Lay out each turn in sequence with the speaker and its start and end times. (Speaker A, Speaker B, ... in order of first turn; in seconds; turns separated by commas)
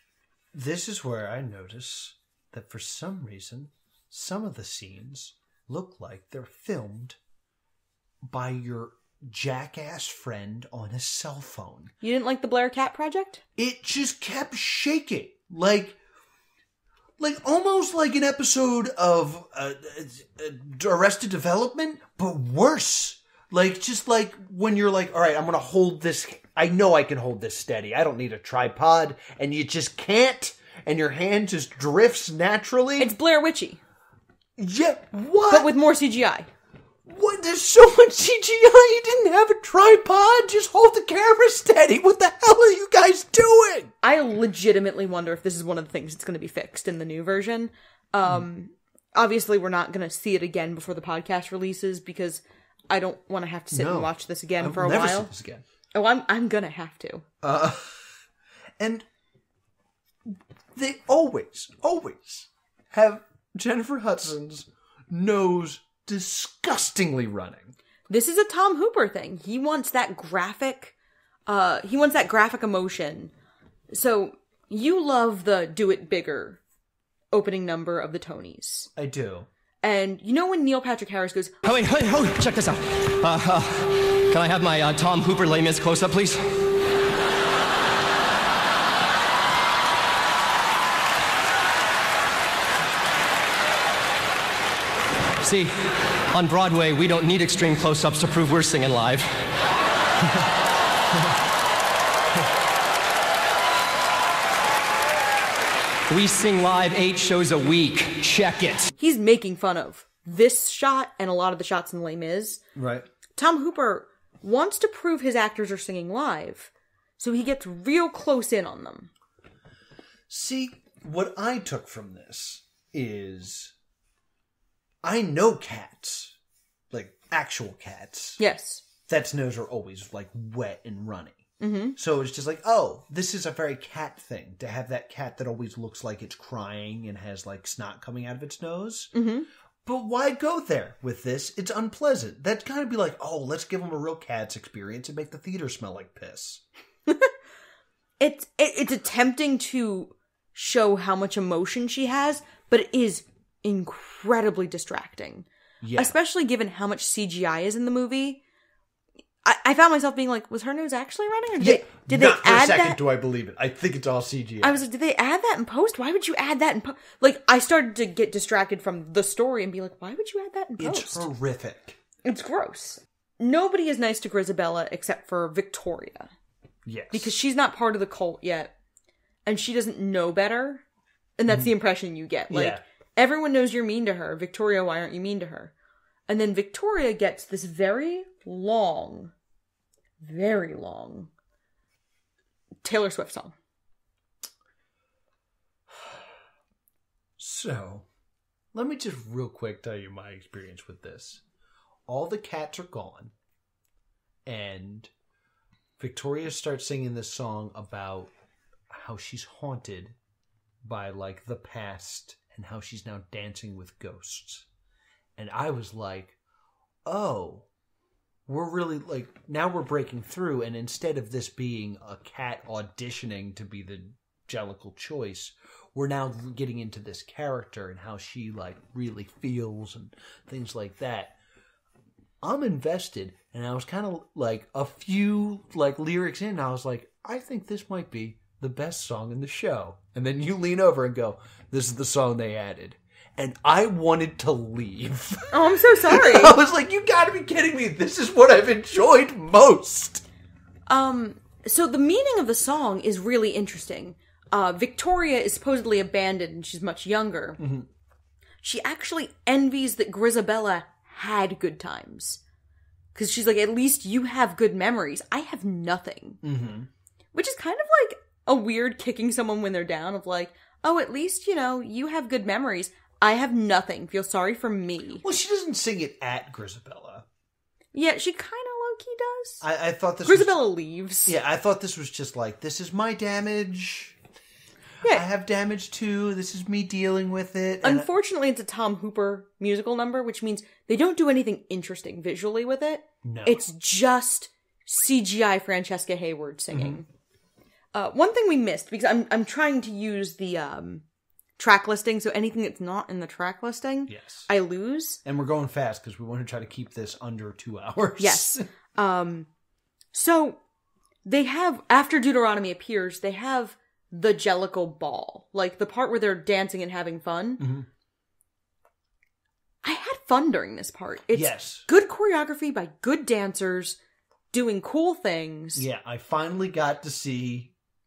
Speaker A: 0.5-7.2, Speaker A: 8.2-11.9, Speaker B: 12.0-13.4, Speaker A: 13.6-16.0, Speaker A: 17.2-33.1, Speaker B: 33.0-33.8, Speaker A: 34.6-35.7, Speaker B: 35.5-36.5, Speaker A: 37.1-43.9, Speaker B: 44.0-55.3, Speaker A: 53.7-55.6, Speaker B: 55.9-57.2, Speaker A: 57.4-58.1, Speaker A: 58.8-59.0, Speaker A: 60.3-67.7, Speaker B: 68.1-70.9, Speaker B: 71.5-73.3, Speaker B: 73.9-76.6, Speaker B: 77.3-78.9, Speaker A: 79.0-79.5, Speaker B: 79.8-81.6, Speaker C: 81.6-86.7, Speaker C: 95.4-99.5, Speaker C: 106.1-108.9, Speaker B: 109.0-112.6, Speaker A: 112.8-113.1, Speaker B: 113.3-119.1, Speaker A: 120.3-123.7, Speaker A: 125.0-126.3, Speaker A: 126.9-128.4, Speaker B: 128.4-128.8, Speaker A: 129.1-131.4, Speaker B: 131.6-132.0, Speaker A: 131.9-139.1, Speaker B: 139.1-139.5, Speaker A: 139.8-146.6, Speaker B: 148.2-158.4, Speaker A: 155.8-156.1, Speaker B: 159.4-163.0, Speaker A: 161.6-164.8, Speaker B: 164.6-171.3, Speaker A: 170.8-172.0, Speaker B: 172.2-176.3, Speaker A: 176.8-177.3, Speaker B: 177.1-178.7, Speaker B: 179.4-180.8, Speaker B: 181.4-185.7, Speaker A: 182.5-182.8, Speaker B: 186.3-189.3, Speaker B: 190.2-191.3, Speaker B: 192.8-193.5, Speaker A: 195.9-196.2, Speaker A: 197.4-198.1, Speaker A: 198.7-201.4, Speaker A: 202.1-203.3, Speaker A: 204.4-205.1, Speaker A: 206.0-208.3, Speaker A: 208.9-210.2, Speaker A: 210.8-214.7, Speaker A: 215.4-216.3, Speaker A: 217.0-217.7, Speaker A: 218.5-231.3, Speaker A: 232.4-250.2, Speaker B: 245.5-246.6, Speaker B: 250.9-257.6, Speaker A: 257.6-257.9, Speaker B: 258.6-262.4, Speaker B: 263.1-266.4, Speaker A: 266.4-266.9, Speaker B: 267.3-275.2, Speaker A: 275.2-277.2, Speaker B: 277.9-279.6, Speaker A: 279.6-280.6, Speaker B: 280.2-281.3, Speaker A: 281.2-284.2, Speaker A: 285.0-288.1, Speaker B: 287.8-297.1, Speaker A: 293.2-293.6, Speaker A: 296.7-297.0, Speaker B: 297.9-301.0, Speaker B: 301.6-305.2, Speaker A: 304.1-304.5, Speaker A: 305.2-308.6, Speaker B: 308.2-309.5, Speaker B: 310.1-310.6, Speaker B: 311.2-317.6, Speaker A: 317.6-317.9, Speaker B: 319.8-324.0, Speaker A: 321.3-321.9, Speaker B: 324.5-325.8, Speaker A: 325.8-327.7